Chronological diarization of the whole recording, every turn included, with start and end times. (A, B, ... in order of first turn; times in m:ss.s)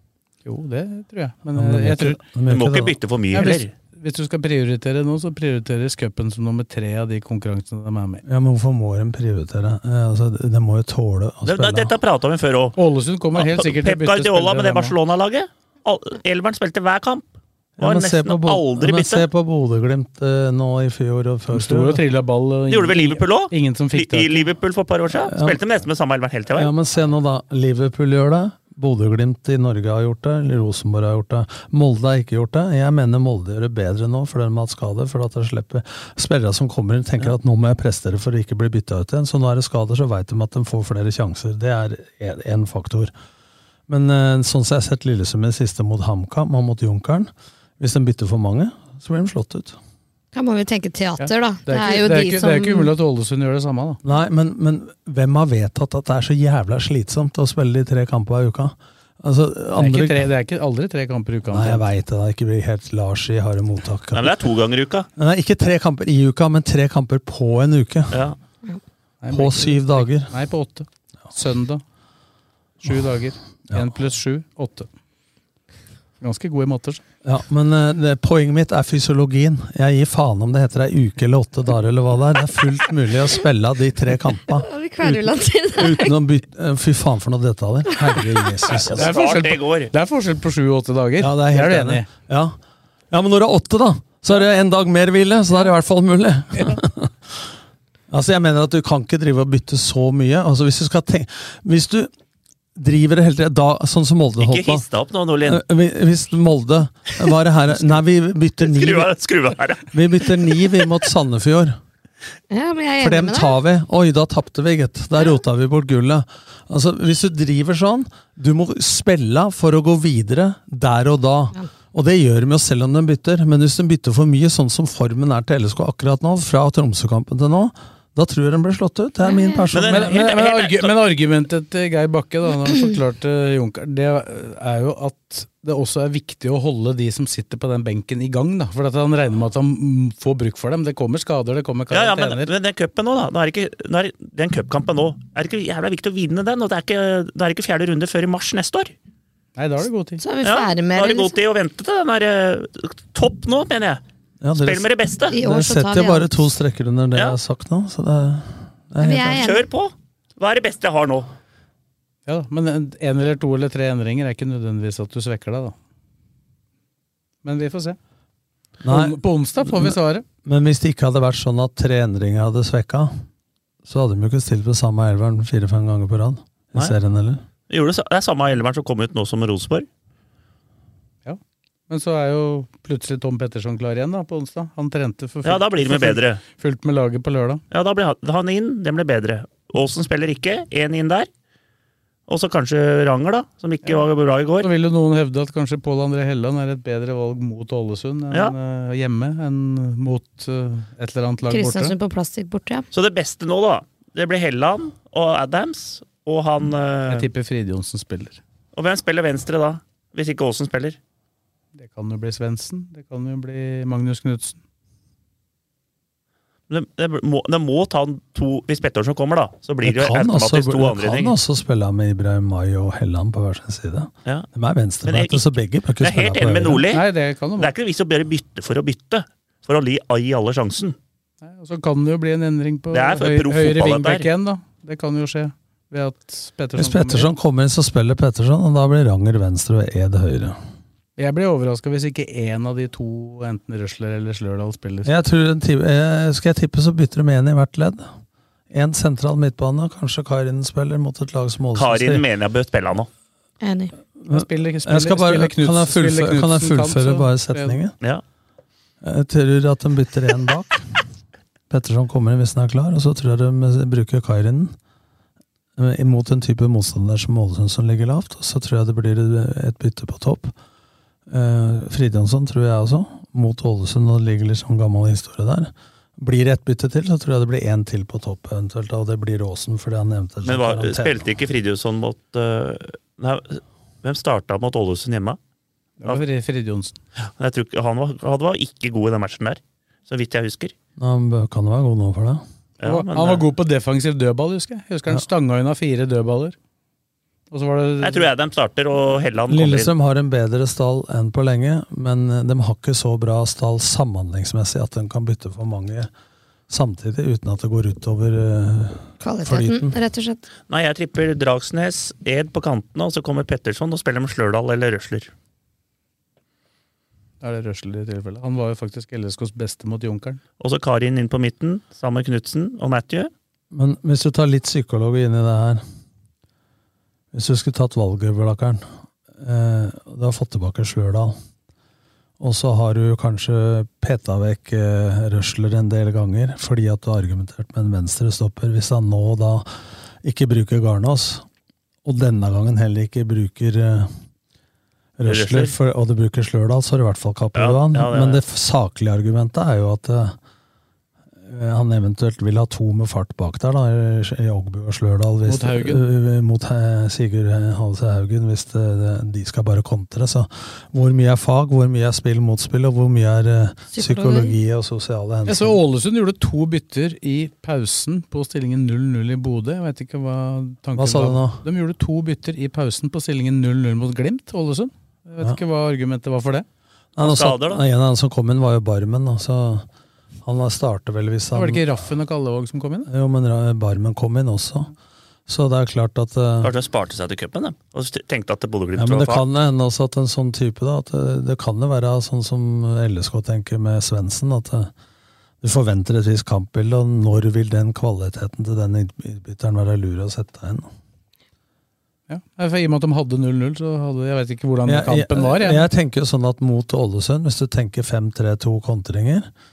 0:00.4-0:02.2 A
0:01.5-0:02.9 B
0:02.5-0:03.7 C
0:03.3-0:08.2 A
0:08.2-0:11.9 B
0:11.4-0:12.8 C
0:12.8-0:14.9 A
0:13.4-0:17.2 C
0:17.8-0:22.0 B
0:17.8-0:19.2 C
0:21.5-0:24.5 A
0:22.7-0:26.7 C
0:25.1-0:25.6 B
0:26.5-0:43.1 B
0:43.9-0:49.8 B
0:50.3-0:52.9 D
0:51.2-0:54.0 A
0:54.0-1:00.3 B
0:59.8-1:01.8 A
1:01.5-1:04.3 B
1:04.1-1:05.1 C
1:05.2-1:08.2 B
1:08.1-1:08.4 C
1:09.2-1:11.8 A
1:09.3-1:10.3 B
1:12.8-1:14.9 A
1:16.2-1:17.0 A
1:17.2-1:29.1 B
1:24.5-1:26.2 D
1:28.0-1:28.2 D
1:28.8-1:29.9 C
1:29.0-1:32.1 A
1:31.2-1:32.6 B
1:33.1-1:37.4 B
1:38.1-1:42.1 B
1:42.8-1:44.8 B
1:44.4-1:45.6 C
1:45.4-1:49.1 B
1:48.6-1:49.9 C
1:49.9-1:51.8 B
1:52.5-1:53.6 D
1:53.0-2:10.2 B
2:09.2-2:09.7 D
2:09.7-2:11.0 C
2:09.9-2:22.5 A
2:21.9-2:28.9 C
2:29.6-2:30.2 A
2:30.2-2:31.3 D
2:30.4-2:34.0 C
2:34.4-2:39.4 B
2:34.6-2:35.3 C
2:35.3-2:36.4 D
2:39.0-2:39.6 D
2:39.2-2:41.3 C
2:42.3-2:45.7 A
2:47.4-2:48.0 A
2:48.8-2:53.1 B
2:48.8-2:50.2 A
2:53.8-2:57.4 B
2:57.7-2:59.9 C
3:01.2-3:07.6 A
3:05.4-3:06.4 C
3:07.7-3:11.3 C
3:12.3-3:14.7 C
3:14.6-3:21.9 A
3:21.5-3:22.8 D
3:22.9-3:27.3 C
3:27.1-3:28.4 A
3:28.7-3:31.0 C
3:31.7-3:34.6 A
3:36.7-3:41.4 C
3:39.8-3:46.8 B
3:45.0-3:45.5 C
3:46.0-3:47.1 C
3:46.9-3:47.7 A
3:47.6-3:51.0 C
3:51.4-3:57.3 A
3:52.9-3:54.3 C
3:56.8-4:00.6 B
4:01.2-4:05.1 A
4:05.0-4:08.1 B
4:08.7-4:12.2 B
4:11.7-4:13.1 C
4:13.6-4:13.9 D
4:14.2-4:18.0 B
4:14.3-4:17.8 A
4:19.0-4:20.8 B
4:21.7-4:24.8 B
4:25.8-4:30.5 B
4:31.3-4:41.3 B
4:40.4-4:45.4 C
4:46.0-4:47.0 A
4:47.3-4:50.7 C
4:51.0-4:52.4 B
4:52.8-4:53.4 C
4:52.8-4:56.6 A
4:57.5-4:58.3 A
4:58.0-4:59.9 C
4:59.5-5:06.1 B
5:06.7-5:10.0 B
5:09.2-5:10.4 D
5:10.7-5:15.3 C
5:17.4-5:20.4 A
5:20.6-5:23.3 C
5:23.7-5:25.8 B
5:27.3-5:28.8 B
5:29.4-5:31.4 B
5:32.4-5:39.7 B
5:40.2-5:41.4 B
5:42.0-5:44.1 B
5:45.2-5:50.4 B
5:45.3-5:45.7 C
5:47.5-5:48.4 C
5:51.4-6:05.8 B
5:55.4-5:56.0 A
6:03.9-6:04.6 D
6:05.4-6:16.6 A
6:11.0-6:11.6 B
6:17.2-6:19.9 B
6:17.2-6:17.8 C
6:20.4-6:21.8 B
6:21.5-6:23.1 A
6:23.1-6:24.9 B
6:25.5-6:26.7 B
6:26.6-6:29.4 C
6:29.0-6:34.9 B
6:35.6-6:40.9 B
6:42.3-6:45.8 A
6:44.8-6:49.5 B